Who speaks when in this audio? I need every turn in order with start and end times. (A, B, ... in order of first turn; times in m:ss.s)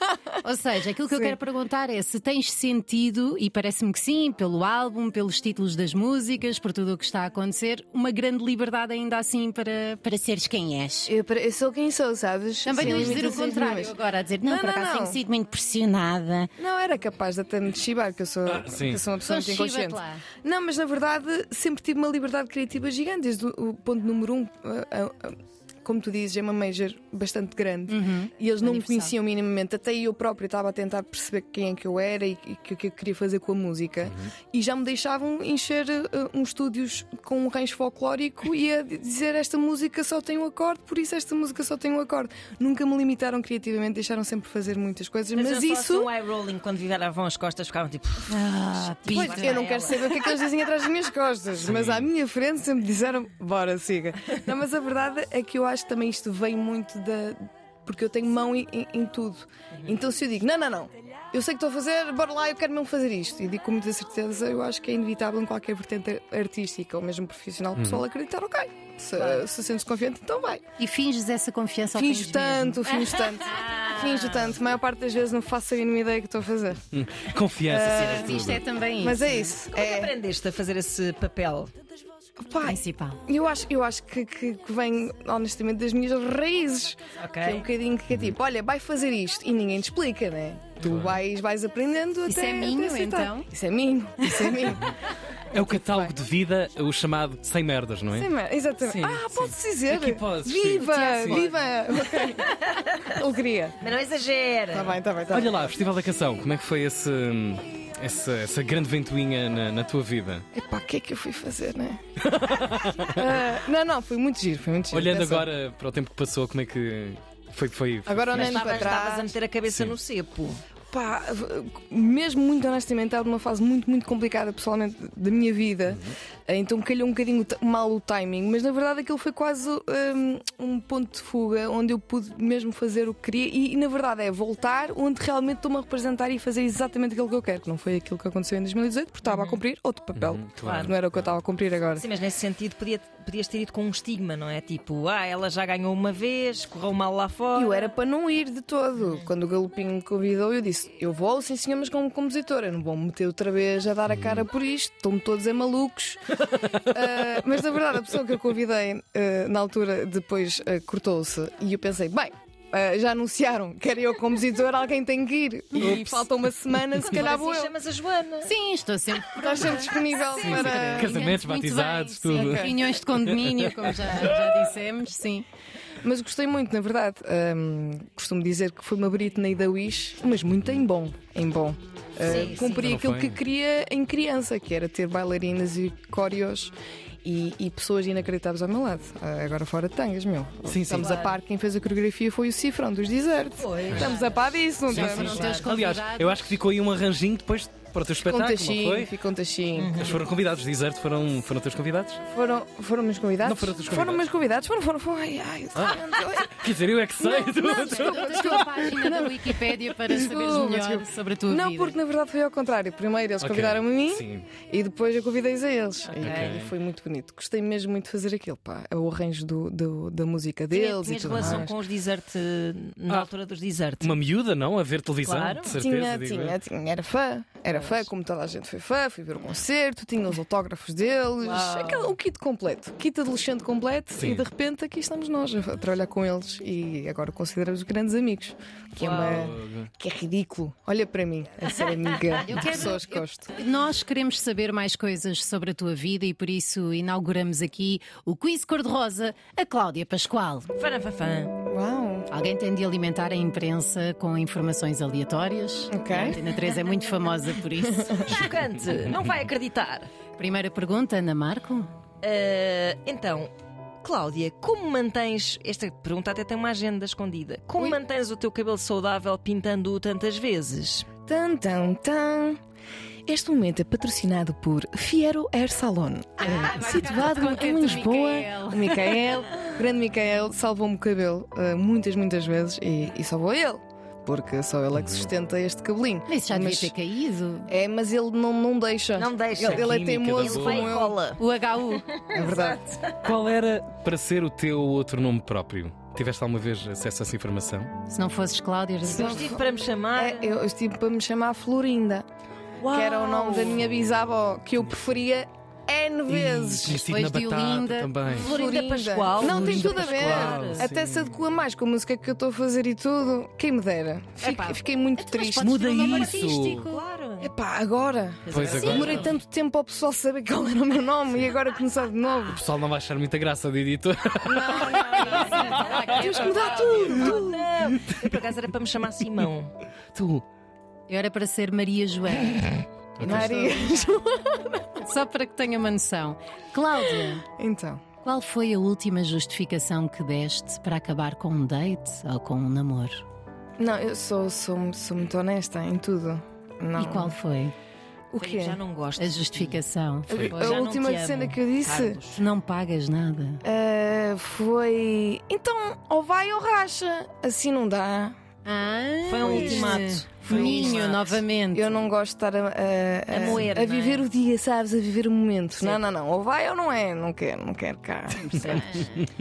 0:00.4-0:11.1 A
0:01.1-0:01.4 B
0:11.1-0:15.2 B
0:12.6-0:16.5 A
0:16.6-0:46.1 B
0:18.4-0:19.0 C
0:19.2-0:20.2 A
0:27.9-0:29.1 A
0:34.0-0:34.3 C
0:45.3-0:50.4 D
0:48.3-0:49.6 A
0:49.1-1:10.6 B
0:51.6-0:52.1 C
1:07.8-1:08.0 C
1:09.1-1:09.5 D
1:10.8-1:13.6 A
1:11.9-1:16.8 B
1:13.4-1:14.6 D
1:16.9-1:18.6 C
1:17.7-1:20.1 B
1:17.9-1:19.5 A
1:19.7-1:21.7 D
1:22.4-1:34.9 B
1:22.6-1:23.2 A
1:27.2-1:27.6 D
1:30.8-1:31.2 C
1:32.2-1:33.4 A
1:35.5-1:38.3 C
1:35.5-1:36.1 B
1:38.1-1:42.5 B
1:38.8-1:41.5 C
1:42.2-1:43.0 D
1:43.0-1:43.8 B
1:43.8-1:45.0 D
1:44.7-1:45.7 B
1:45.3-1:50.4 C
1:50.5-1:52.0 B
1:52.2-1:53.3 C
1:53.1-1:55.5 B
1:54.9-1:58.7 C
1:58.0-1:59.3 B
1:58.3-2:00.6 D
1:58.4-1:59.2 A
1:59.6-2:00.0 C
2:00.9-2:22.0 B
2:05.9-2:06.2 C
2:19.2-2:19.6 D
2:20.1-2:21.2 C
2:20.6-2:20.9 D
2:22.0-2:27.9 D
2:27.5-2:47.7 B
2:45.8-2:46.2 C
2:47.1-2:48.5 D
2:48.4-2:55.4 A
2:49.4-2:51.3 B
2:50.4-2:53.9 C
2:52.3-2:52.7 B
2:56.0-3:06.7 B
3:02.2-3:02.8 D
3:02.6-3:03.4 C
3:07.2-3:15.6 B
3:10.6-3:11.1 C
3:11.0-3:11.4 D
3:13.6-3:14.3 D
3:14.9-3:16.6 A
3:15.0-3:15.6 D
3:15.0-3:19.1 C
3:18.2-3:20.2 B
3:19.8-3:20.2 D
3:19.9-3:22.2 C
3:22.3-3:26.6 B
3:23.4-3:24.2 C
3:25.8-3:28.6 C
3:27.2-3:41.7 B
3:27.6-3:32.0 A
3:33.4-3:34.5 C
3:36.1-3:36.6 D
3:36.2-3:36.7 C
3:40.7-3:44.2 D
3:41.3-3:41.7 C
3:44.0-3:46.6 C
3:45.2-3:45.8 D
3:45.7-4:03.5 B
3:47.7-3:48.1 D
3:51.4-3:52.2 D
3:54.1-3:54.4 C
3:59.0-3:59.4 D
3:59.1-3:59.9 C
4:02.4-4:10.7 A
4:10.8-4:11.5 D
4:11.6-4:12.3 B
4:12.3-4:18.5 A
4:15.9-4:16.4 B
4:18.2-4:20.1 D
4:20.4-4:21.9 A
4:22.2-4:31.1 D
4:31.3-4:32.6 B
4:33.3-4:46.9 B
4:36.4-4:39.1 A
4:45.0-4:45.3 C
4:46.3-4:47.7 A
4:47.7-4:51.2 B
4:49.1-4:51.4 D
4:49.6-4:50.9 C
4:51.4-4:52.0 A
4:52.3-4:53.2 D
4:52.3-4:52.8 B
4:53.2-4:57.9 C
4:58.1-4:59.4 A
4:59.0-4:59.6 B
4:59.1-5:00.5 D
5:00.2-5:02.2 B
5:02.8-5:03.8 D
5:02.9-5:07.0 B
5:06.3-5:08.5 C
5:06.9-5:08.1 A
5:08.2-5:15.9 B
5:08.3-5:10.9 D
5:09.5-5:11.3 C
5:14.4-5:14.8 D
5:15.2-5:16.9 A
5:15.6-5:16.9 C
5:16.1-5:17.5 D
5:17.4-5:22.6 B
5:18.4-5:19.4 D
5:18.5-5:19.1 C
5:22.5-5:26.2 C
5:24.4-5:27.6 B
5:24.8-5:29.7 D
5:25.1-5:25.5 A
5:30.1-5:30.4 C
5:31.1-5:32.8 A
5:33.2-5:33.6 C
5:33.2-5:34.7 B
5:33.3-5:33.8 A
5:35.0-5:37.4 A
5:37.4-5:38.0 B
5:38.2-5:43.2 A
5:43.8-5:47.4 B
5:47.0-5:47.7 A
5:48.3-5:48.8 B
5:48.4-5:49.8 D
5:49.2-5:50.8 A
5:50.3-5:52.2 B
5:50.3-5:50.6 C
5:50.6-5:52.4 D
5:52.4-5:53.6 A
5:53.6-5:58.4 B
5:58.6-6:02.0 A
5:59.3-6:01.4 D
5:59.4-6:08.7 B
6:03.3-6:04.3 D
6:05.8-6:06.0 D
6:08.4-6:09.2 A
6:08.5-6:09.1 D